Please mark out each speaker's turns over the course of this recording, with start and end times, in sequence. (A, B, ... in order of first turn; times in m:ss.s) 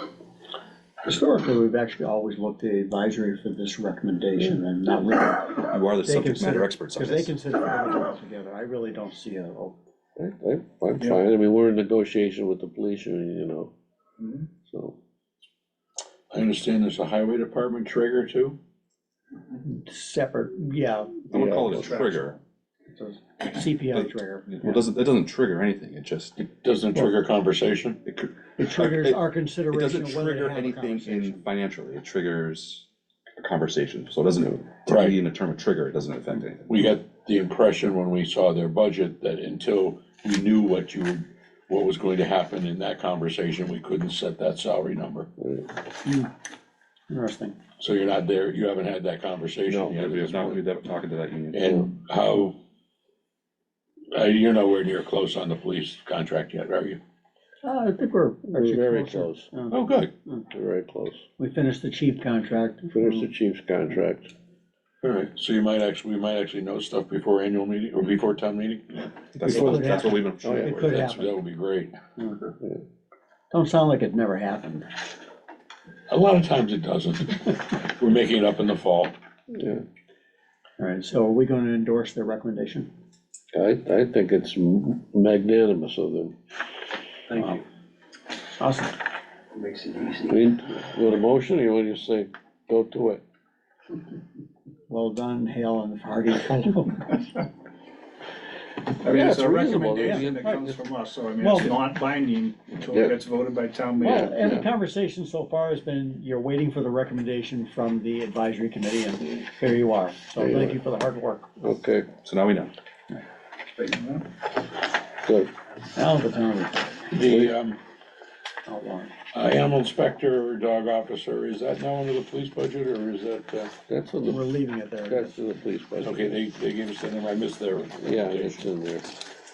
0:01.0-0:09.8 A
0:05.7-0:07.3 B
0:10.2-0:13.7 C
0:14.2-0:14.5 D
0:14.7-0:15.0 C
0:16.3-0:18.6 E
0:19.6-0:22.0 A
0:21.3-0:22.4 B
0:21.3-0:21.8 C
0:22.9-0:24.8 A
0:24.0-0:26.3 B
0:26.4-0:28.0 E
0:28.0-0:32.8 B
0:28.6-0:31.4 A
0:33.4-0:36.7 B
0:34.8-0:35.2 E
0:36.7-0:45.3 E
0:45.4-0:45.6 C
0:46.0-0:46.3 A
0:47.1-0:47.6 A
0:47.8-0:50.6 E
0:49.7-0:50.1 C
0:49.9-0:51.6 B
0:51.5-0:52.6 E
0:54.1-0:57.0 E
0:57.6-1:00.4 A
0:58.5-0:59.5 C
0:59.7-1:00.1 E
1:00.5-1:01.2 C
1:01.4-1:03.3 A
1:02.9-1:04.3 C
1:05.0-1:09.1 E
1:09.3-1:11.0 B
1:09.5-1:10.8 C
1:09.5-1:11.3 A
1:10.8-1:11.9 E
1:13.5-1:14.9 A
1:16.1-1:19.1 E
1:19.5-1:19.8 C
1:20.8-1:22.9 A
1:23.5-1:26.4 C
1:27.3-1:27.6 A
1:28.6-1:28.9 A
1:30.2-1:33.2 C
1:34.9-1:37.4 A
1:39.0-1:40.6 C
1:39.0-1:44.3 D
1:40.0-1:40.7 A
1:41.4-1:41.8 A
1:44.0-1:51.5 A
1:44.1-1:44.6 C
1:50.4-1:50.8 C
1:51.6-1:52.1 C
1:52.2-1:52.7 B
1:53.8-1:54.2 D
1:55.2-1:55.5 C
1:55.9-1:57.1 A
1:57.1-1:57.8 E
1:57.2-1:57.5 C
1:58.7-1:59.1 A
1:59.3-2:03.8 E
2:03.9-2:04.4 C
2:04.2-2:05.3 A
2:05.1-2:06.4 C
2:06.0-2:08.7 E
2:08.0-2:09.1 C